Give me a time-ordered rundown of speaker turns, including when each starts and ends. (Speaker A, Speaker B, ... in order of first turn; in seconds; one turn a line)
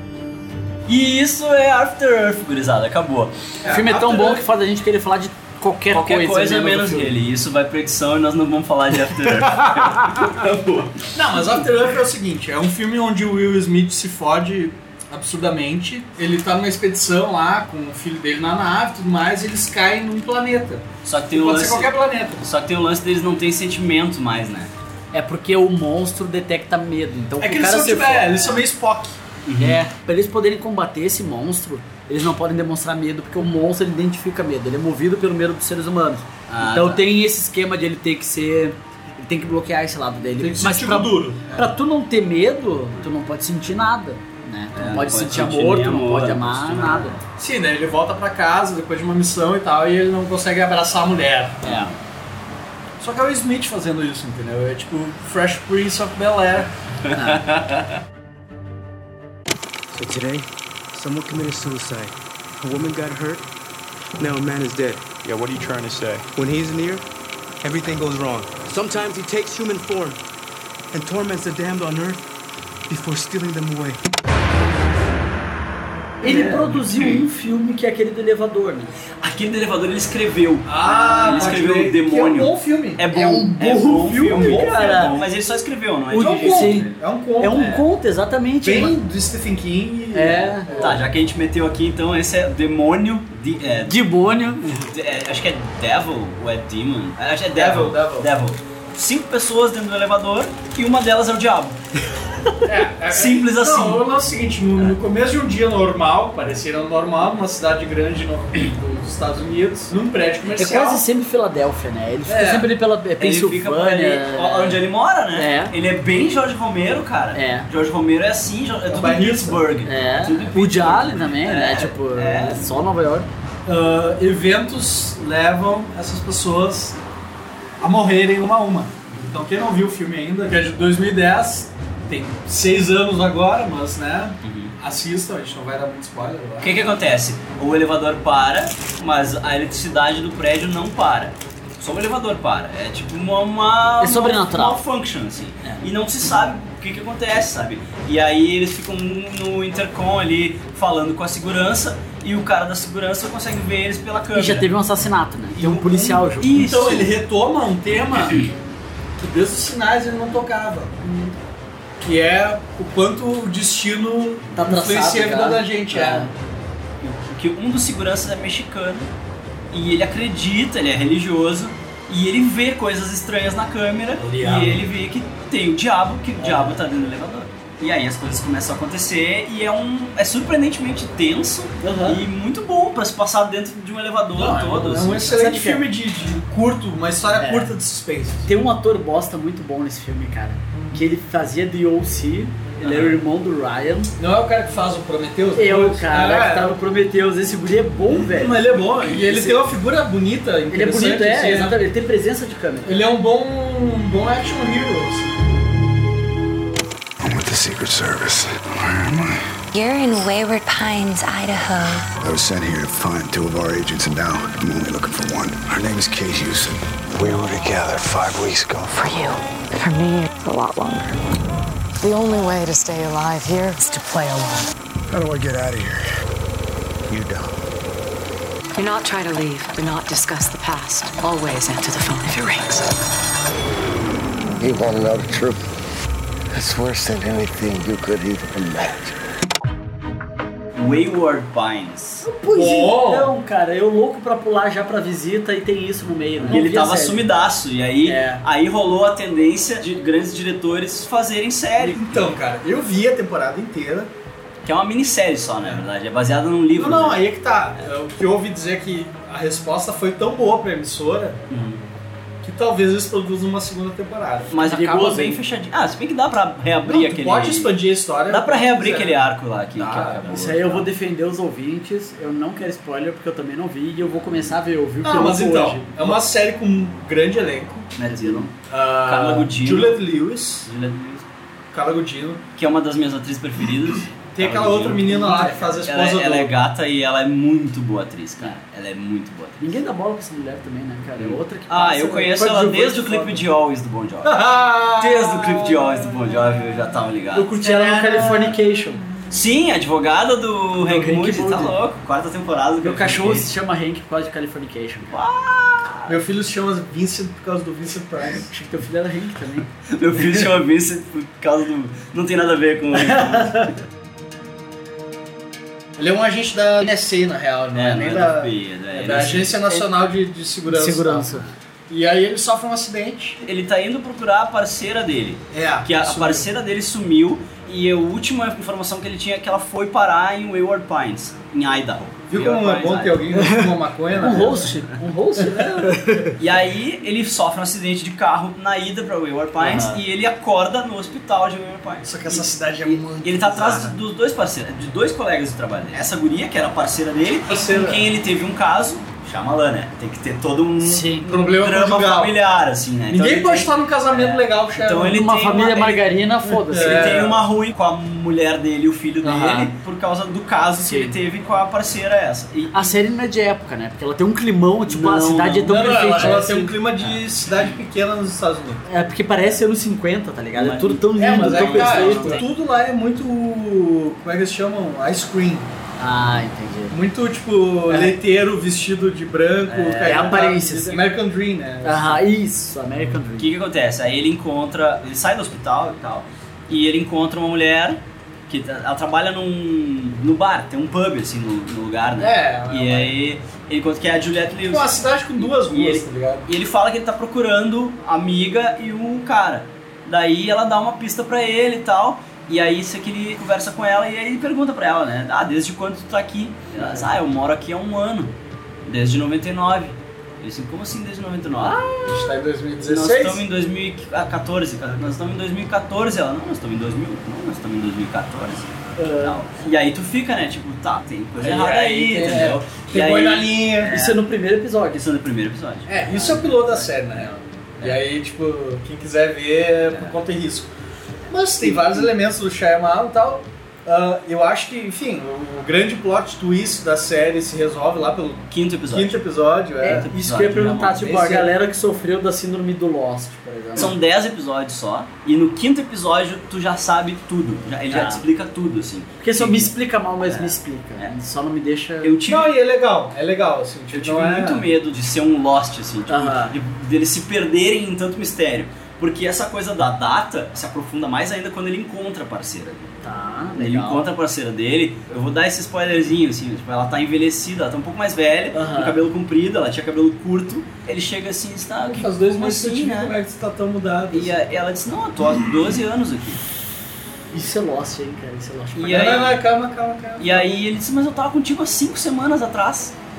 Speaker A: 0.9-3.3
Speaker B: 3.6-4.4
Speaker C: 3.7-7.1
Speaker A: 5.9-11.1
Speaker B: 11.1-22.4
Speaker A: 21.0-24.7
Speaker C: 25.1-28.6
Speaker B: 27.4-29.2
Speaker A: 29.5-29.9
Speaker C: 29.6-47.2
Speaker A: 36.5-37.1
Speaker B: 40.4-41.7
Speaker A: 44.7-47.2
Speaker B: 47.4-51.6
Speaker C: 51.6-51.9
Speaker A: 51.6-52.0
Speaker B: 53.0-56.7
Speaker C: 57.1-57.4
Speaker A: 57.3-57.8
Speaker D: 59.9-63.4
Speaker D: 64.2-67.0
Speaker D: 67.6-70.2
Speaker D: 70.9-72.2
Speaker D: 72.9-74.0
Speaker C: 76.2-78.9
Speaker A: 76.2-77.1
Speaker A: 79.2-87.8
Speaker B: 80.7-85.1
Speaker C: 80.8-81.6
Speaker C: 83.1-85.1
Speaker C: 86.1-89.0
Speaker B: 86.1-87.7
Speaker B: 88.6-91.0
Speaker C: 90.1-91.0
Speaker A: 90.8-101.8
Speaker C: 93.9-94.8
Speaker B: 97.5-98.3
Speaker B: 102.7-111.0
Speaker A: 103.1-104.0
Speaker C: 110.5-114.8
Speaker B: 112.2-112.7
Speaker A: 113.2-122.7
Speaker C: 115.3-115.7
Speaker C: 117.3-117.7
Speaker B: 118.9-119.7
Speaker C: 119.8-123.3
Speaker B: 123.7-127.0
Speaker B: 127.8-136.9
Speaker A: 134.4-134.7
Speaker A: 136.6-154.7
Speaker C: 144.0-144.8
Speaker C: 154.3-156.8
Speaker A: 155.6-157.1
Speaker B: 156.4-158.5
Speaker B: 159.2-161.3
Speaker B: 162.0-166.3
Speaker C: 164.5-166.3
Speaker A: 167.0-169.1
Speaker A: 169.7-185.8
Speaker B: 174.2-174.8
Speaker C: 176.4-176.8
Speaker C: 181.8-182.2
Speaker B: 184.3-188.5
Speaker C: 187.3-187.7
Speaker C: 188.4-194.1
Speaker B: 194.2-196.8
Speaker C: 195.6-199.7
Speaker B: 198.2-201.8
Speaker C: 200.7-203.0
Speaker B: 202.8-205.3
Speaker E: 207.2-209.4
Speaker F: 209.7-212.1
Speaker E: 212.2-219.0
Speaker G: 219.0-221.2
Speaker G: 222.0-224.7
Speaker E: 225.1-226.0
Speaker E: 227.1-227.5
Speaker G: 228.8-232.9
Speaker H: 234.6-235.7
Speaker H: 236.5-239.2
Speaker A: 240.8-242.2
Speaker C: 242.2-247.2
Speaker B: 242.5-243.3
Speaker A: 246.5-252.2
Speaker C: 248.0-248.4
Speaker B: 251.8-254.1
Speaker A: 254.7-257.2
Speaker B: 256.8-261.4
Speaker A: 261.5-261.8
Speaker B: 262.4-264.5
Speaker A: 264.5-267.7
Speaker C: 264.6-265.4
Speaker B: 266.9-270.3
Speaker A: 268.3-270.9
Speaker C: 270.3-276.1
Speaker B: 275.0-277.9
Speaker A: 278.0-278.5
Speaker B: 278.5-280.7
Speaker A: 279.0-280.0
Speaker A: 280.6-281.2
Speaker B: 281.7-282.4
Speaker A: 282.6-289.8
Speaker B: 284.3-286.6
Speaker C: 285.2-285.8
Speaker C: 289.6-293.4
Speaker A: 291.2-294.4
Speaker B: 292.4-293.2
Speaker B: 294.2-296.0
Speaker A: 295.0-297.5
Speaker C: 297.3-299.0
Speaker B: 297.5-298.5
Speaker A: 299.3-303.5
Speaker C: 300.8-301.8
Speaker C: 302.8-305.1
Speaker A: 305.1-306.2
Speaker B: 306.1-308.5
Speaker C: 308.4-309.7
Speaker A: 309.9-313.7
Speaker C: 313.0-313.7
Speaker B: 316.0-323.4
Speaker A: 317.7-319.7
Speaker C: 320.7-321.5
Speaker A: 323.4-333.3
Speaker B: 325.5-326.5
Speaker B: 332.3-334.7
Speaker C: 334.2-336.3
Speaker B: 335.4-336.2
Speaker A: 336.4-356.2
Speaker C: 339.6-340.0
Speaker B: 342.0-344.0
Speaker B: 347.4-348.0
Speaker C: 350.8-351.3
Speaker B: 351.2-352.4
Speaker B: 353.1-355.2
Speaker C: 355.1-357.2
Speaker B: 356.6-357.4
Speaker A: 356.7-363.0
Speaker C: 359.2-359.7
Speaker C: 360.9-361.1
Speaker C: 362.7-366.7
Speaker A: 364.9-365.6
Speaker B: 365.4-368.8
Speaker C: 368.8-372.4
Speaker A: 370.6-372.4
Speaker B: 371.2-375.7
Speaker C: 376.0-377.0
Speaker B: 376.9-382.2
Speaker C: 377.9-378.1
Speaker A: 379.7-380.4
Speaker C: 380.0-381.1
Speaker C: 381.8-383.5
Speaker A: 383.4-408.3
Speaker B: 392.2-393.1
Speaker B: 394.6-396.5
Speaker A: 408.9-411.8
Speaker C: 411.6-412.2
Speaker B: 412.1-413.4
Speaker A: 412.9-424.2
Speaker C: 419.0-419.4
Speaker B: 421.4-424.0
Speaker C: 423.8-425.0
Speaker A: 424.9-427.3
Speaker B: 425.9-430.7
Speaker A: 429.9-430.1
Speaker B: 431.3-440.1
Speaker A: 438.5-439.2
Speaker A: 439.8-441.0
Speaker C: 439.8-443.9
Speaker B: 440.8-441.5
Speaker A: 443.8-451.1
Speaker C: 447.9-448.2
Speaker C: 449.2-452.1
Speaker A: 452.0-452.5
Speaker B: 452.2-454.7
Speaker A: 453.9-463.0
Speaker C: 456.1-456.6
Speaker C: 463.0-464.0
Speaker A: 463.6-473.1
Speaker C: 468.5-468.9
Speaker B: 471.8-474.3
Speaker A: 474.1-476.4
Speaker C: 477.3-479.2
Speaker A: 478.8-479.4
Speaker B: 478.9-480.6
Speaker A: 480.2-482.9